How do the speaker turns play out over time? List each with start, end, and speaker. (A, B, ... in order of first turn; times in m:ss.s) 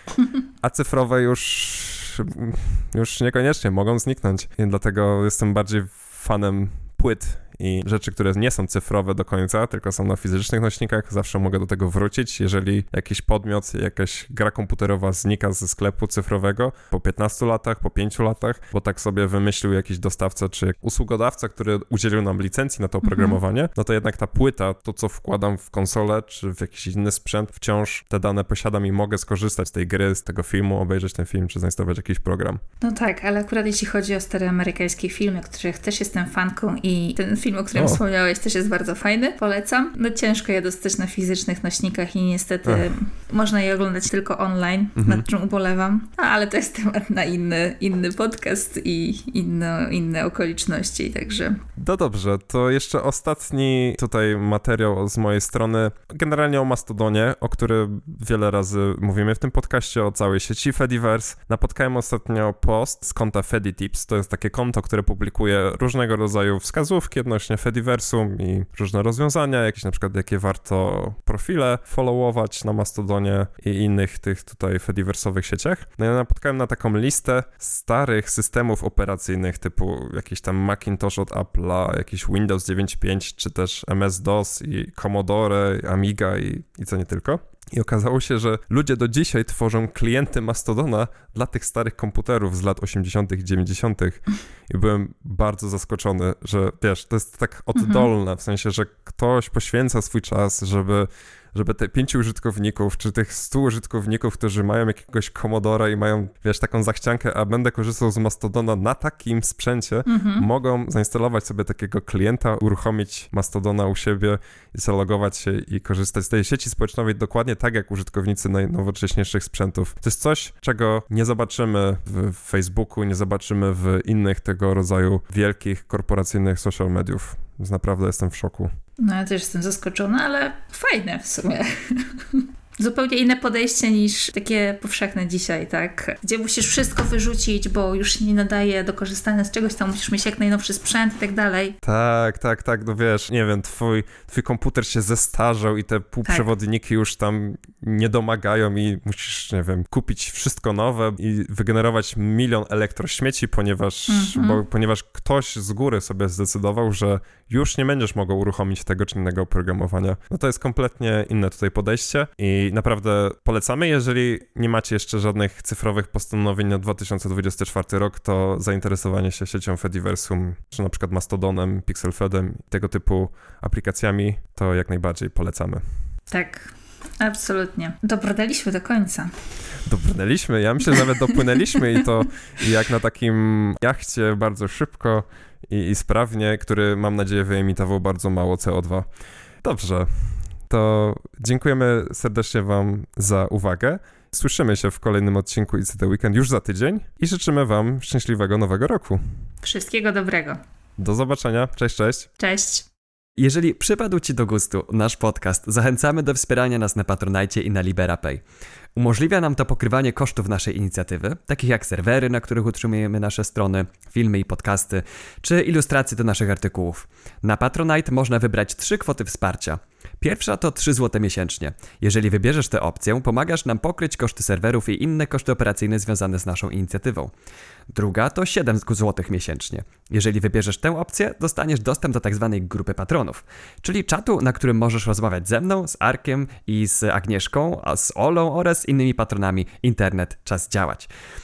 0:00.6-0:32.6 A
0:23.0-0:23.4 B
0:32.8-0:51.6 B
0:45.0-0:45.2 C
0:51.8-2:08.7 A
1:37.8-1:38.1 B
1:50.1-1:50.4 B
2:09.0-2:21.8 B
2:21.8-2:55.8 A
2:34.1-2:34.6 B
2:56.3-2:59.3 B
2:59.8-3:09.1 A
3:09.6-3:19.2 A
3:19.6-3:20.6 B
3:21.0-3:22.3 A
3:22.4-3:22.9 B
3:23.4-3:28.4 C
3:28.9-3:47.3 C
3:47.9-4:01.1 C